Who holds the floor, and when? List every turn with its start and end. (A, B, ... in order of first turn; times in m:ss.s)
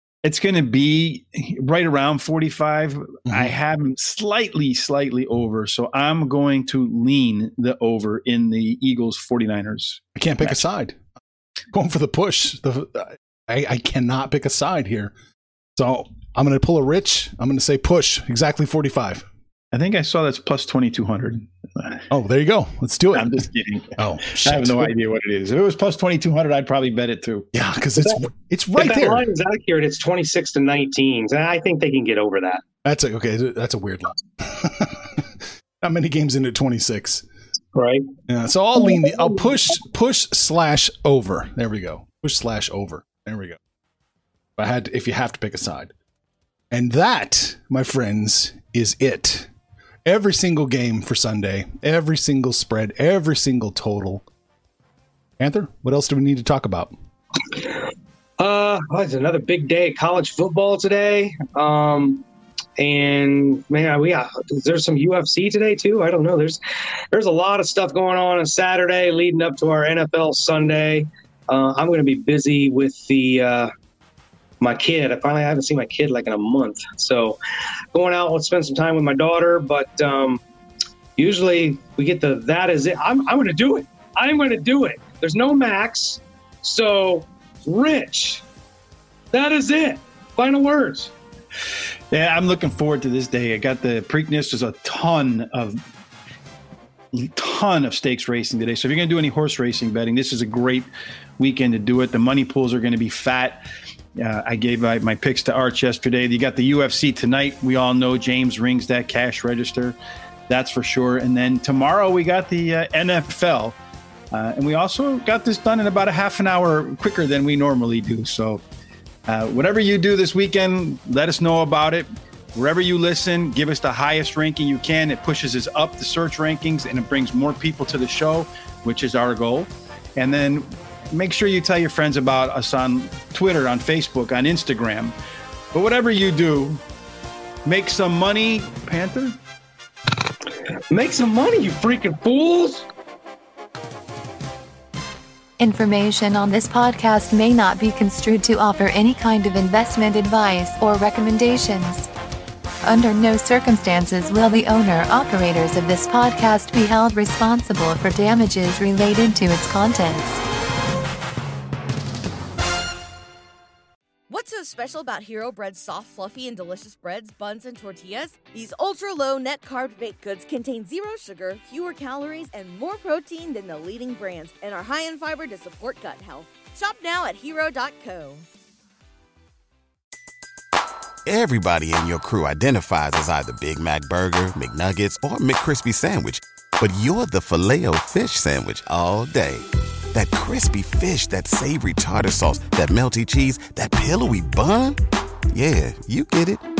0:00.2-0:10.6 A
0:03.3-0:03.5 B
0:10.2-0:11.0 B
0:11.7-0:15.1 B
0:15.8-0:19.2 B
0:19.7-0:22.0 A
0:22.1-0:23.4 B
0:23.1-0:27.5 A
0:24.0-0:24.9 B
0:27.5-0:29.2 B
0:28.8-0:32.6 C
0:32.8-0:37.2 B
0:37.7-0:38.0 C
0:38.3-0:43.6 B
0:44.6-0:45.9 B
0:46.7-0:49.5 B
0:50.0-0:54.2 B
0:55.4-0:56.9 B
0:58.4-1:02.2 C
1:02.8-1:06.6 C
1:07.1-1:13.7 C
1:14.6-1:17.4 C
1:17.9-1:20.4 C
1:21.2-1:28.4 C
1:29.3-1:31.1 C
1:32.1-1:35.8 A
1:37.1-1:43.6 A
1:44.2-1:50.0 A
1:50.5-1:53.8 A
1:54.3-1:58.6 A
1:59.3-2:15.1 A
2:15.7-2:16.8 A
2:17.6-2:19.4 A
2:20.9-2:22.9 C
2:25.6-2:32.1 D
2:32.8-2:40.4 D
2:44.3-2:58.4 E
3:01.2-3:15.0 F
3:15.5-3:16.6 F